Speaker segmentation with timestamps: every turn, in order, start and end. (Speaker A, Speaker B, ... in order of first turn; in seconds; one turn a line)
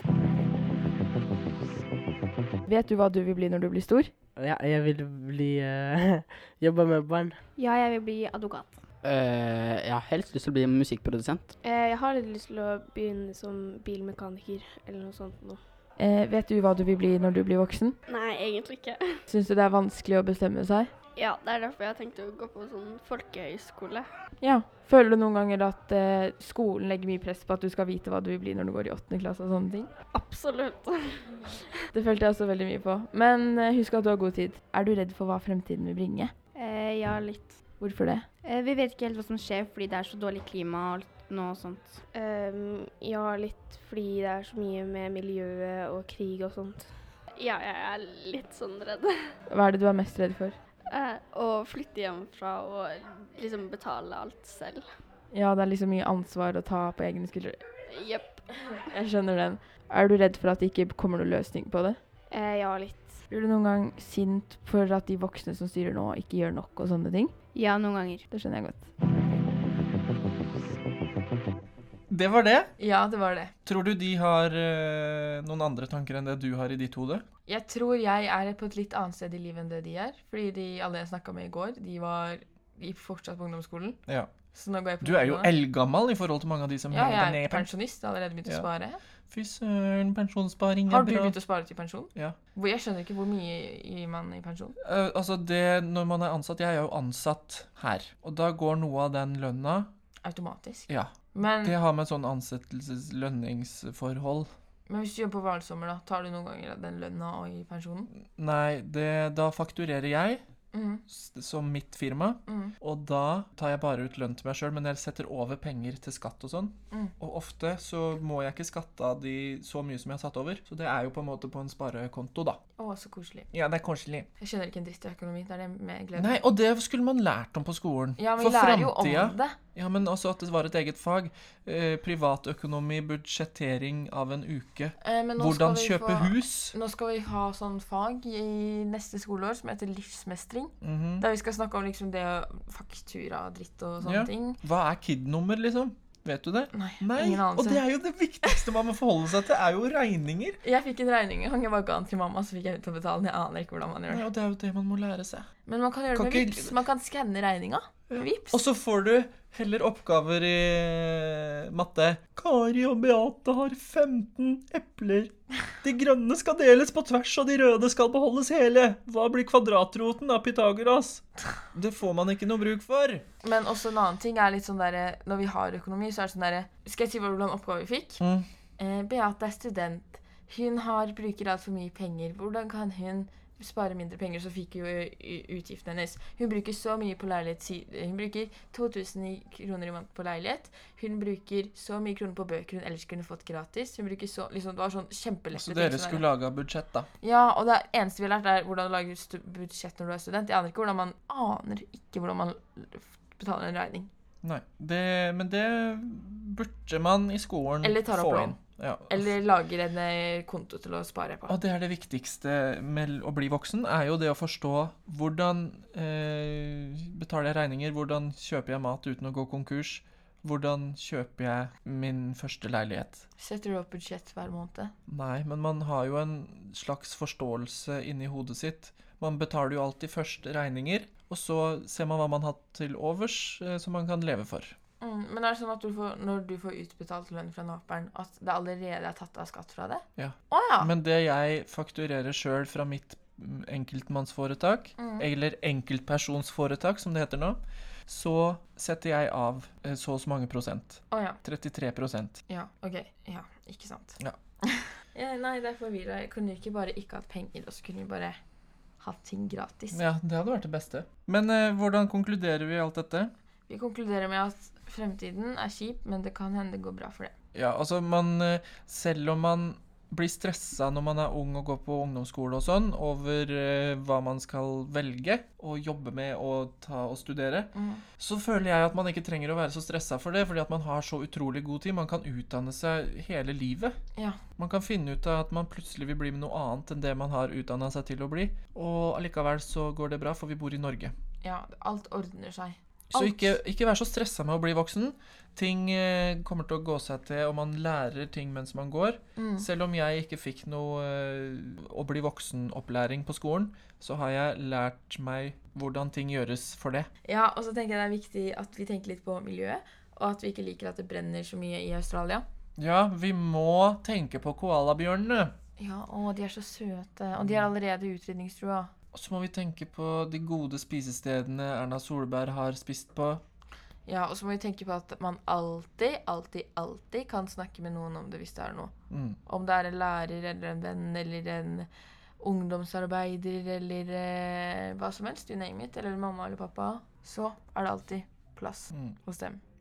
Speaker A: 2.7-4.1
Speaker B: 4.4-7.4
Speaker C: 7.6-8.8
Speaker B: 9.0-11.5
Speaker D: 11.6-15.6
Speaker A: 16.0-18.0
Speaker D: 18.1-19.2
Speaker A: 19.3-20.9
Speaker D: 21.2-24.1
Speaker A: 24.4-29.9
Speaker D: 30.1-31.7
Speaker A: 31.9-36.3
Speaker D: 36.6-37.5
Speaker A: 37.8-38.3
Speaker C: 38.4-42.0
Speaker D: 42.1-49.3
Speaker A: 49.5-50.6
Speaker D: 50.9-54.9
Speaker A: 55.3-57.6
Speaker D: 57.9-58.5
Speaker A: 58.8-62.0
Speaker D: 62.3-63.2
Speaker A: 63.3-67.3
Speaker C: 67.5-68.2
Speaker A: 68.3-68.9
Speaker E: 72.1-72.7
Speaker A: 72.8-73.5
Speaker E: 73.7-77.2
Speaker A: 77.5-84.0
Speaker A: 84.5-85.5
Speaker E: 85.0-87.7
Speaker A: 86.9-89.0
Speaker E: 89.3-91.4
Speaker A: 90.9-94.8
Speaker E: 94.8-99.9
Speaker A: 100.2-101.8
Speaker E: 100.9-104.5
Speaker A: 104.9-108.1
Speaker E: 108.1-110.4
Speaker A: 110.7-111.0
Speaker E: 111.1-122.6
Speaker A: 112.5-112.7
Speaker A: 122.8-123.5
Speaker E: 123.5-124.3
Speaker A: 124.4-126.4
Speaker E: 126.2-136.7
Speaker A: 128.2-129.6
Speaker A: 135.0-144.6
Speaker E: 140.8-141.3
Speaker E: 144.0-150.6
Speaker A: 146.7-147.8
Speaker A: 150.6-154.2
Speaker E: 154.1-155.5
Speaker A: 155.7-158.6
Speaker E: 156.1-156.8
Speaker E: 158.1-173.2
Speaker A: 173.4-178.2
Speaker E: 178.2-178.5
Speaker A: 178.8-196.2
Speaker E: 195.5-197.1
Speaker A: 197.2-204.1
Speaker E: 204.4-209.3
Speaker A: 207.8-208.6
Speaker A: 209.1-211.6
Speaker E: 211.5-223.2
Speaker A: 223.4-224.9
Speaker E: 225.1-234.8
Speaker A: 235.0-240.9
Speaker E: 240.2-252.4
Speaker A: 245.0-245.3
Speaker A: 251.1-251.4
Speaker A: 252.5-258.4
Speaker A: 259.0-260.0
Speaker E: 259.9-263.3
Speaker A: 263.7-267.3
Speaker E: 267.5-284.0
Speaker A: 277.7-278.0
Speaker E: 284.6-291.1
Speaker A: 291.4-293.6
Speaker E: 293.1-307.1
Speaker A: 299.4-299.7
Speaker A: 307.2-312.4
Speaker E: 312.8-315.5
Speaker A: 315.8-318.9
Speaker E: 317.4-317.7
Speaker E: 319.1-323.4
Speaker A: 324.1-328.9
Speaker E: 329.1-329.4
Speaker A: 329.5-331.9
Speaker A: 332.4-339.6